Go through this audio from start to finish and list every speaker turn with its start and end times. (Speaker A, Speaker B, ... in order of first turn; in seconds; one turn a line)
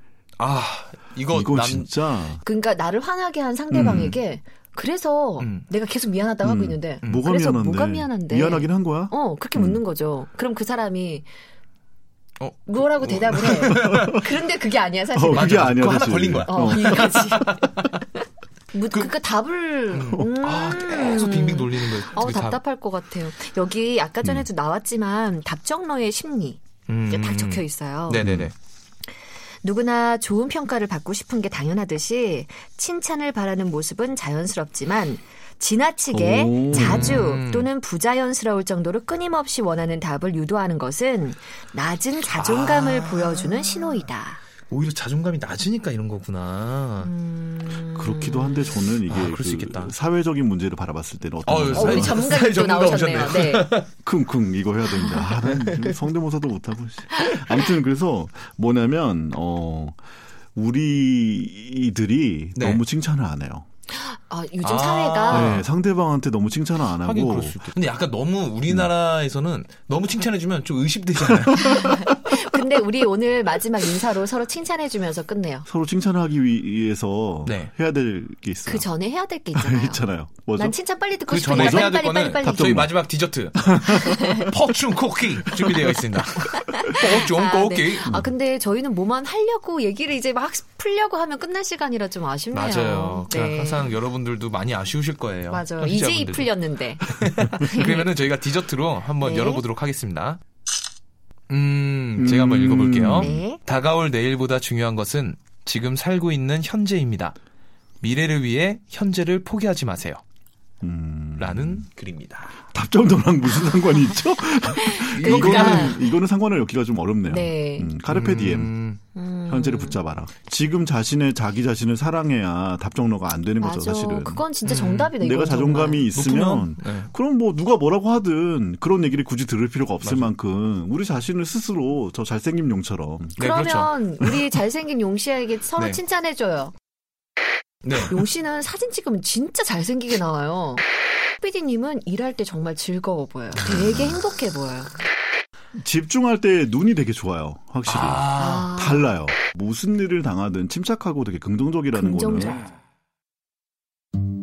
Speaker A: 0.4-1.9
Speaker B: 1.3-2.4
Speaker C: 2.4-11.3
Speaker B: 3.7-4.2
Speaker A: 5.4-5.7
Speaker B: 6.4-9.8
Speaker A: 12.4-14.3
Speaker C: 12.7-15.7
Speaker B: 13.7-14.1
Speaker B: 15.1-17.1
Speaker A: 15.3-17.8
Speaker C: 16.5-18.1
Speaker C: 18.7-28.2
Speaker A: 19.9-22.6
Speaker A: 26.9-28.5
Speaker B: 28.2-28.5
Speaker C: 29.6-44.4
Speaker B: 36.1-37.3
Speaker A: 36.7-37.7
Speaker A: 42.4-44.0
Speaker A: 44.7-47.1
Speaker C: 47.0-48.9
Speaker B: 47.9-52.3
Speaker A: 49.1-49.9
Speaker A: 51.4-53.9
Speaker C: 51.7-53.8
Speaker B: 54.0-60.0
Speaker A: 55.3-55.9
Speaker B: 60.5-63.6
Speaker A: 62.5-62.8
Speaker C: 63.9-65.6
Speaker A: 64.6-65.7
Speaker B: 65.3-67.6
Speaker A: 66.9-72.0
Speaker C: 71.6-75.7
Speaker B: 75.7-78.9
Speaker A: 77.4-77.7
Speaker C: 78.7-80.0
Speaker B: 79.5-80.8
Speaker C: 80.5-82.8
Speaker A: 81.3-88.1
Speaker B: 81.4-83.0
Speaker B: 83.7-84.4
Speaker C: 84.0-84.4
Speaker C: 86.5-93.9
Speaker A: 92.5-100.4
Speaker C: 95.5-98.1
Speaker C: 99.2-99.6
Speaker A: 101.5-107.3
Speaker B: 102.2-103.4
Speaker C: 103.2-103.6
Speaker A: 108.0-110.2
Speaker B: 110.8-111.8
Speaker A: 111.4-112.6
Speaker B: 112.7-118.7
Speaker C: 114.8-116.0
Speaker A: 115.1-116.0
Speaker C: 117.3-117.9
Speaker A: 118.1-119.0
Speaker C: 119.1-120.0
Speaker B: 119.5-124.5
Speaker C: 123.6-126.1
Speaker A: 124.6-125.2
Speaker B: 125.2-133.4
Speaker A: 126.1-127.1
Speaker A: 130.0-130.3
Speaker A: 133.4-133.9
Speaker C: 133.4-136.7
Speaker A: 137.8-138.2
Speaker C: 138.1-140.8
Speaker C: 141.4-144.9
Speaker B: 145.7-152.7
Speaker A: 147.8-148.7
Speaker C: 148.3-149.1
Speaker C: 151.9-152.7